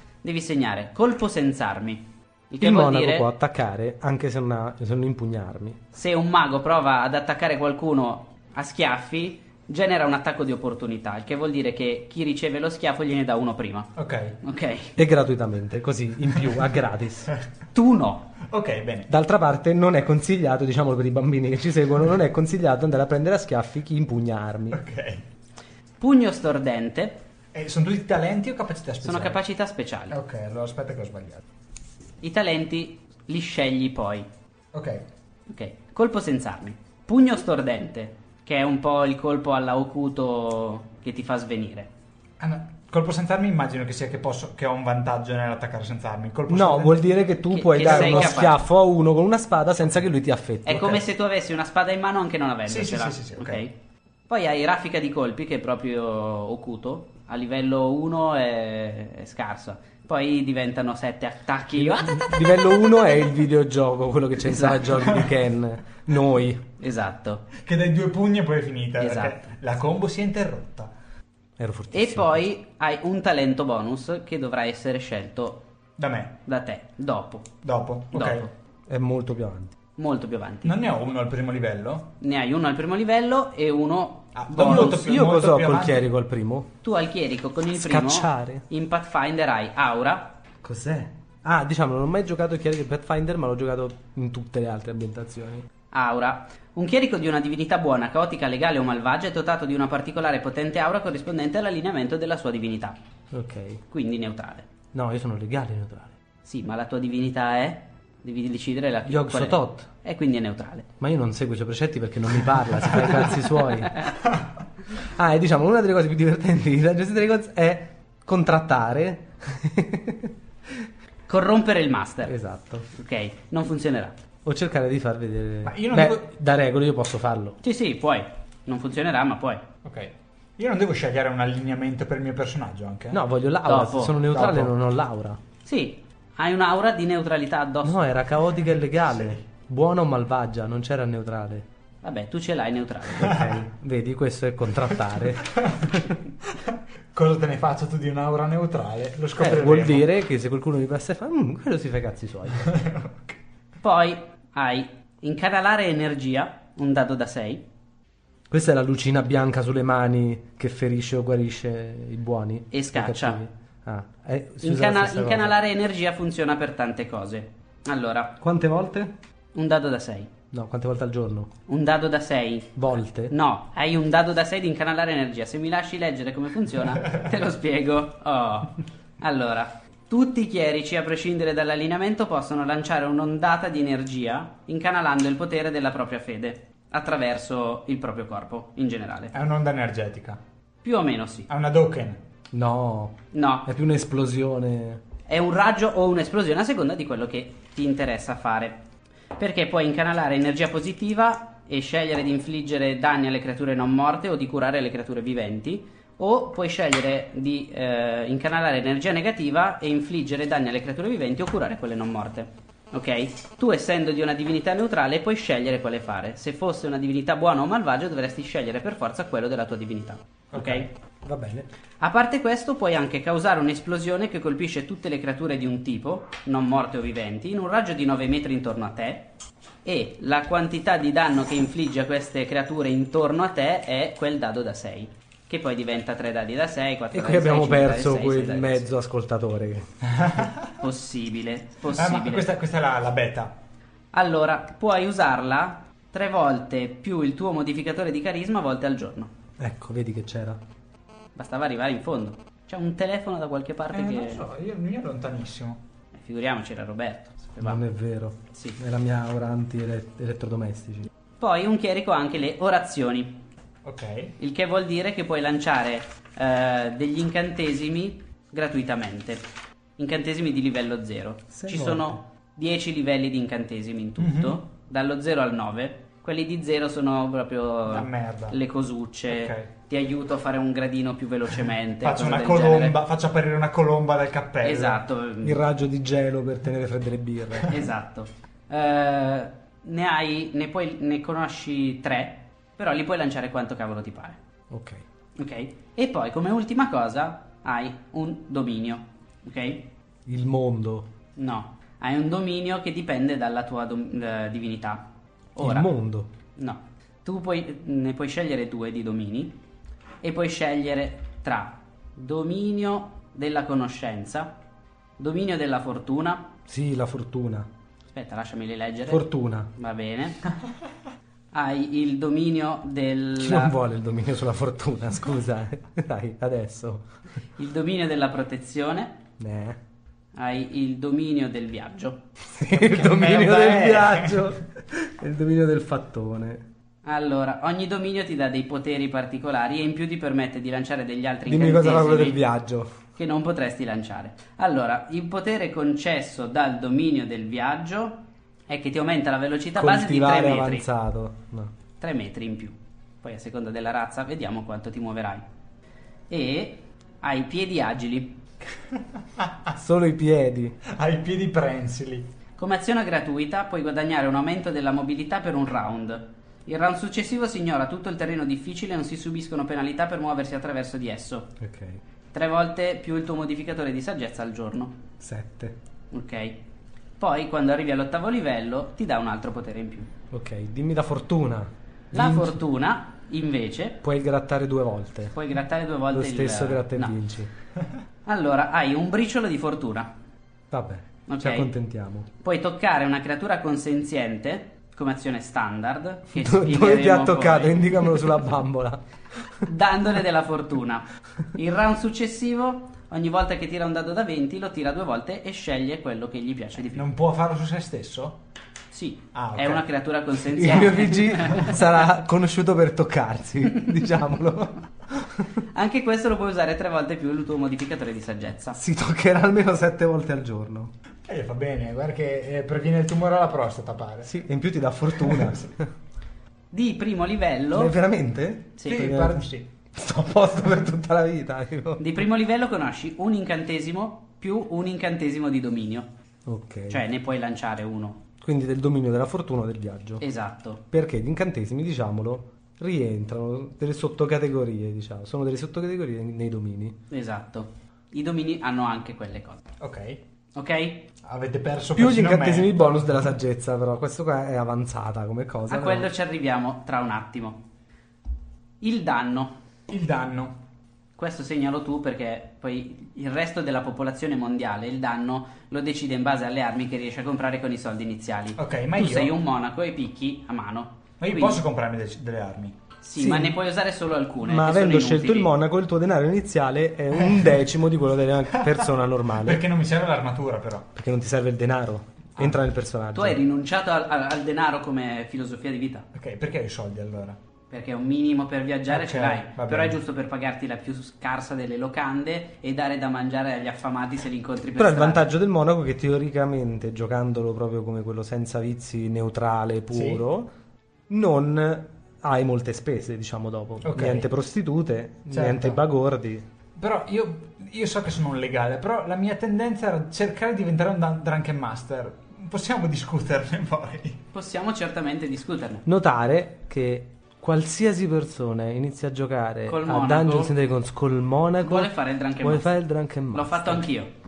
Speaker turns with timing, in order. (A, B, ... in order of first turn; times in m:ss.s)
0:00.2-0:03.3 A
0:02.6-0:05.8 B
0:05.9-0:15.0 A
0:14.0-0:14.4 C
0:15.0-0:17.3 B
0:17.7-0:18.3 A
0:18.4-0:19.1 C
0:19.1-0:24.8 B
0:24.7-0:25.2 C
0:26.0-0:27.2 A
0:27.5-0:29.4 C
0:29.0-0:30.2 A
0:30.1-0:31.4 C
0:32.2-0:34.3 A
0:34.7-0:35.1 C
0:35.5-0:41.9 A
0:42.4-0:47.2 C
0:46.5-0:51.0 B
0:47.5-0:48.6 A
0:47.8-0:48.5 C
0:50.6-0:53.7 A
0:52.7-0:53.6 C
0:54.3-1:02.7 A
1:01.8-1:06.6 B
1:04.5-1:04.8 A
1:06.8-1:07.5 A
1:07.6-1:10.9 C
1:09.0-1:09.4 A
1:11.6-1:12.4 B
1:11.9-1:15.6 A
1:16.0-1:16.4 C
1:16.5-1:17.5 A
1:17.6-1:18.5 C
1:18.1-1:18.5 A
1:18.9-1:19.7 B
1:20.0-1:20.8 A
1:20.6-1:22.2 C
1:22.2-1:25.1 A
1:24.4-1:26.1 C
1:24.6-1:26.7 B
1:26.8-1:30.4 A
1:27.8-1:28.6 B
1:30.6-1:35.6 B
1:35.9-1:43.0 A
1:43.3-1:43.8 B
1:43.9-1:44.7 A
1:44.9-1:46.2 B
1:46.4-1:50.9 A
1:49.1-1:49.9 B
1:51.0-1:54.1 B
1:55.0-2:00.3 B
2:01.3-2:02.4 A
2:02.3-2:02.9 B
2:02.9-2:04.2 A
2:04.4-2:07.6 B
2:05.6-2:06.3 C
2:07.6-2:09.6 A
2:09.8-2:13.2 C
2:13.1-2:15.4 B
2:13.7-2:14.2 A
2:14.3-2:14.8 C
2:15.6-2:18.0 A
2:17.8-2:21.6 B
2:19.1-2:19.4 C
2:22.0-2:23.4 A
2:23.2-2:26.0 B
2:23.2-2:23.6 C
2:25.5-2:25.9 C
2:26.4-2:30.1 C
2:29.4-2:32.8 B
2:32.7-2:33.4 C
2:33.8-2:37.6 A
2:38.5-2:45.6 B
2:42.7-2:43.4 A
2:44.6-2:48.4 A
2:48.4-2:49.1 B
2:49.5-2:50.3 A
2:50.5-2:51.5 B
2:51.7-3:09.3 A
2:52.8-2:53.3 B
3:09.3-3:10.4 C
3:10.8-3:11.5 A
3:11.5-3:12.2 C
3:12.5-3:15.0 B
3:13.3-3:13.7 A
3:15.3-3:18.8 A
3:19.4-3:40.9 A
3:40.5-3:40.9 C
3:41.2-3:41.7 B
3:42.0-3:49.3 A
3:49.8-3:58.9 A
3:57.1-3:59.9 B
4:00.0-4:00.8 C
4:00.8-4:02.5 A
4:01.9-4:03.6 C
4:04.1-4:09.3 A
4:09.6-4:10.6 B
4:11.4-4:14.4 A
4:13.9-4:15.8 C
4:16.1-4:17.8 A
4:17.6-4:21.1 B
4:21.4-4:23.4 A
4:23.8-4:24.4 C
4:24.4-4:29.4 A
4:30.0-4:43.0 A
4:31.5-4:32.2 B
4:34.2-4:34.6 C
4:37.9-4:38.6 C
4:39.3-4:39.7 C
4:42.0-4:45.0 C
4:44.6-4:45.6 A
4:45.4-4:47.8 B
4:47.7-4:54.4 A
4:54.7-4:55.0 B
4:55.4-4:59.9 A
5:00.3-5:01.1 B
5:01.4-5:05.9 A
5:05.6-5:06.3 B
5:06.6-5:09.6 A
5:10.2-5:14.6 A
5:15.2-5:16.5 A
5:16.7-5:17.7 B
5:18.1-5:20.4 A
5:19.1-5:19.7 B
5:21.5-5:23.8 A
5:23.4-5:27.0 B
5:27.6-5:29.2 A
5:29.4-5:29.8 B
5:30.4-5:32.2 A
5:32.5-5:36.6 B
5:32.7-5:34.6 C
5:37.0-5:42.4 A
5:41.5-5:42.9 B
5:43.2-5:50.8 A
5:49.8-5:51.7 B
5:52.0-5:55.4 A
5:56.3-5:58.4 A
5:58.9-5:59.8 C
5:59.8-6:00.8 B
6:00.8-6:02.3 C
6:02.6-6:11.5 A
6:11.6-6:12.0 B
6:12.3-6:15.0 A
6:15.2-6:15.8 B
6:16.1-6:16.6 A
6:17.2-6:20.1 A
6:20.3-6:22.6 B
6:22.1-6:24.0 A
6:24.0-6:25.4 B
6:25.3-6:27.2 A
6:26.1-6:27.5 B
6:28.3-6:30.1 A
6:30.7-6:32.3 B
6:31.3-6:31.7 A
6:32.4-6:38.4 A
6:36.3-6:39.0 B
6:39.6-6:47.1 A
6:47.0-6:48.4 C
6:48.9-6:51.8 A
6:49.3-6:49.9 C
6:50.5-6:55.5 B
6:55.7-6:58.8 A
6:58.8-7:00.9 B
7:01.2-7:04.4 C
7:04.3-7:05.9 B
7:05.2-7:05.7 C
7:06.7-7:07.9 A
7:07.7-7:09.4 B
7:08.8-7:09.1 A
7:08.9-7:09.7 C
7:09.9-7:12.2 B
7:12.0-7:16.1 A
7:16.5-7:17.0 B
7:16.9-7:18.2 A
7:18.4-7:20.2 B
7:20.2-7:20.8 A
7:20.9-7:27.0 B
7:27.1-7:29.6 A
7:29.8-7:30.2 C
7:30.6-7:31.1 A
7:31.2-7:33.3 C
7:32.0-7:36.1 B
7:35.7-7:37.6 A
7:38.8-7:39.6 A
7:39.9-7:40.6 C
7:41.2-7:51.6 A
7:48.6-7:49.4 C
7:51.2-7:52.8 C
7:53.0-7:55.5 A
7:53.2-7:53.6 B
7:54.4-7:59.6 B
7:57.1-7:57.6 C
7:58.5-8:00.9 C
8:01.0-8:03.4 B
8:03.2-8:06.1 A
8:06.1-8:07.4 C
8:07.7-8:15.3 A
8:08.9-8:10.0 C
8:14.8-8:20.5 B
8:19.9-8:20.2 C
8:21.1-8:26.4 B
8:23.8-8:24.3 C
8:25.3-8:25.8 C
8:26.8-8:34.2 C
8:34.3-8:35.8 A
8:35.9-8:43.9 B
8:39.7-8:40.5 A
8:41.6-8:42.7 A
8:43.3-8:44.1 A